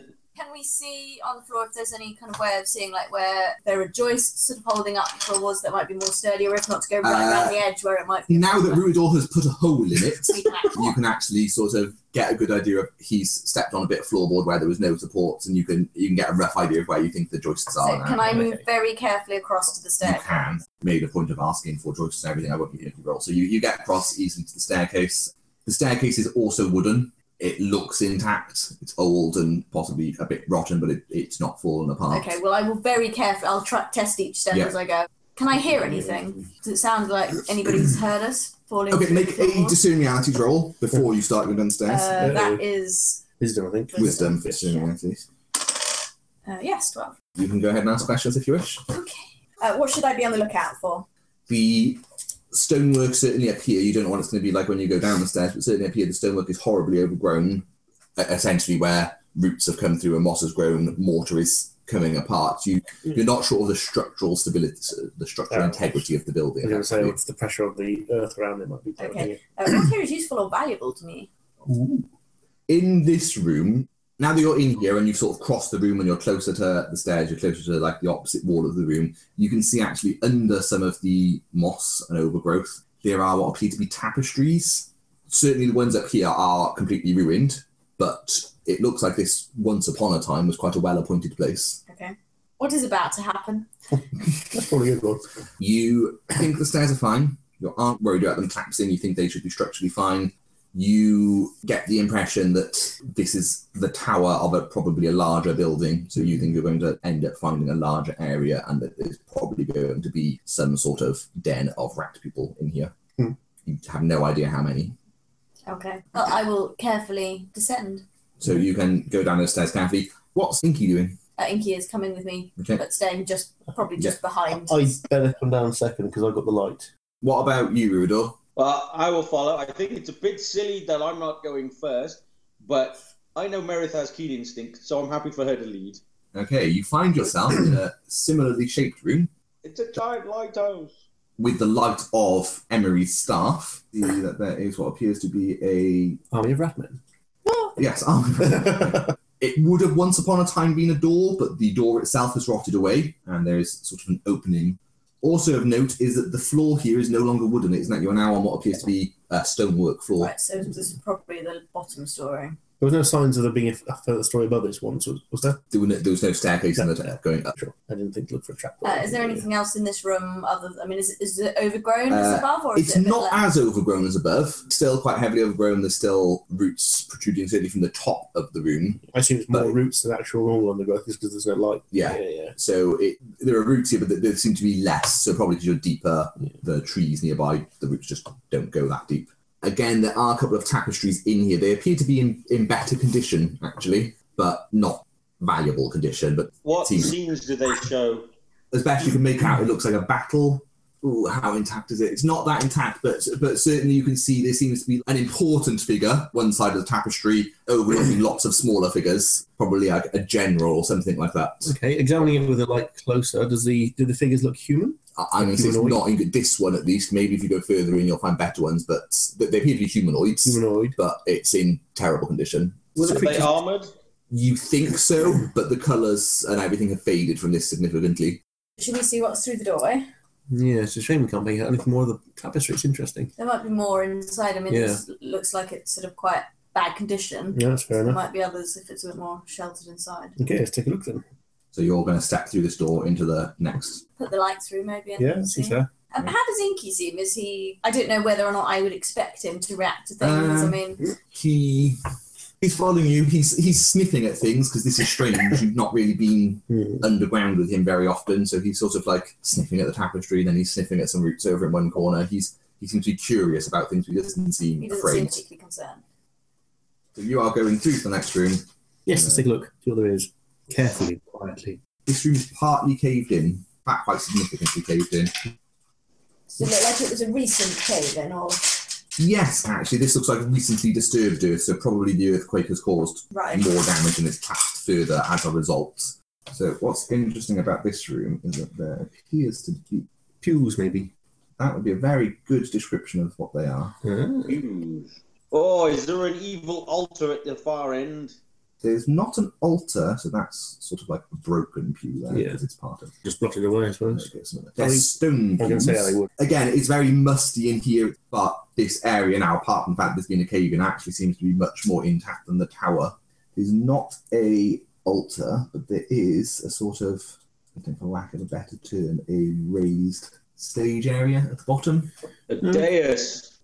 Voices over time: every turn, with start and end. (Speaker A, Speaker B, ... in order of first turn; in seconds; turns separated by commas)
Speaker A: 0.4-8.9, Speaker B: 7.0-7.6, Speaker B: 8.3-18.4, Speaker A: 10.3-10.9, Speaker A: 17.8-20.5, Speaker C: 18.3-18.6, Speaker B: 20.0-32.3, Speaker A: 32.1-39.8, Speaker B: 38.9-42.4, Speaker A: 41.9-43.2, Speaker C: 42.2-42.6, Speaker C: 43.4-44.7, Speaker A: 44.0-44.3, Speaker B: 44.0-45.2, Speaker A: 46.5-47.1, Speaker B: 47.4-48.8, Speaker A: 48.9-51.1, Speaker B: 51.5-67.2, Speaker C: 65.5-65.9, Speaker C: 66.6-69.4, Speaker A: 69.0-71.3, Speaker C: 71.7-72.0, Speaker B: 72.7-91.8, Speaker A: 91.9-93.7, Speaker C: 94.4-95.3, Speaker B: 95.6-112.9, Speaker B: 113.7-115.0, Speaker A: 115.7-118.0, Speaker B: 118.4-121.2, Speaker A: 121.4-124.9, Speaker B: 122.6-122.8, Speaker C: 124.6-126.9, Speaker B: 127.2-128.4, Speaker D: 128.6-136.0, Speaker B: 136.3-139.3, Speaker D: 139.6-140.9, Speaker B: 141.4-146.2, Speaker C: 146.3-147.0, Speaker B: 147.8-160.3, Speaker A: 160.2-162.6, Speaker C: 162.8-165.6, Speaker B: 165.7-167.5, Speaker C: 167.5-169.4, Speaker A: 168.8-173.5, Speaker B: 172.1-179.8, Speaker C: 179.1-182.6, Speaker B: 181.9-197.1, Speaker D: 196.7-198.3, Speaker B: 198.7-211.8, Speaker C: 211.7-216.0, Speaker B: 215.2-223.2, Speaker C: 220.5-221.0, Speaker C: 223.0-223.6, Speaker D: 223.0-223.9, Speaker B: 224.3-228.4, Speaker A: 228.8-230.1, Speaker C: 230.5-233.3, Speaker A: 233.4-240.4, Speaker C: 234.7-235.0, Speaker C: 237.5-238.2, Speaker C: 240.4-241.2, Speaker B: 241.7-244.0, Speaker A: 244.2-251.0, Speaker C: 245.2-245.9, Speaker B: 250.2-252.0, Speaker B: 252.6-265.4, Speaker C: 256.7-257.0, Speaker A: 264.8-266.0, Speaker B: 267.1-269.4, Speaker C: 269.1-271.8, Speaker B: 272.1-275.3, Speaker A: 276.5-278.9, Speaker B: 279.2-290.1, Speaker A: 283.3-283.7, Speaker C: 290.4-291.1, Speaker B: 291.6-293.9, Speaker C: 294.0-294.6, Speaker D: 294.4-298.4, Speaker B: 298.8-303.1, Speaker C: 302.3-302.6, Speaker C: 303.2-306.3, Speaker B: 304.1-322.1, Speaker D: 322.5-323.5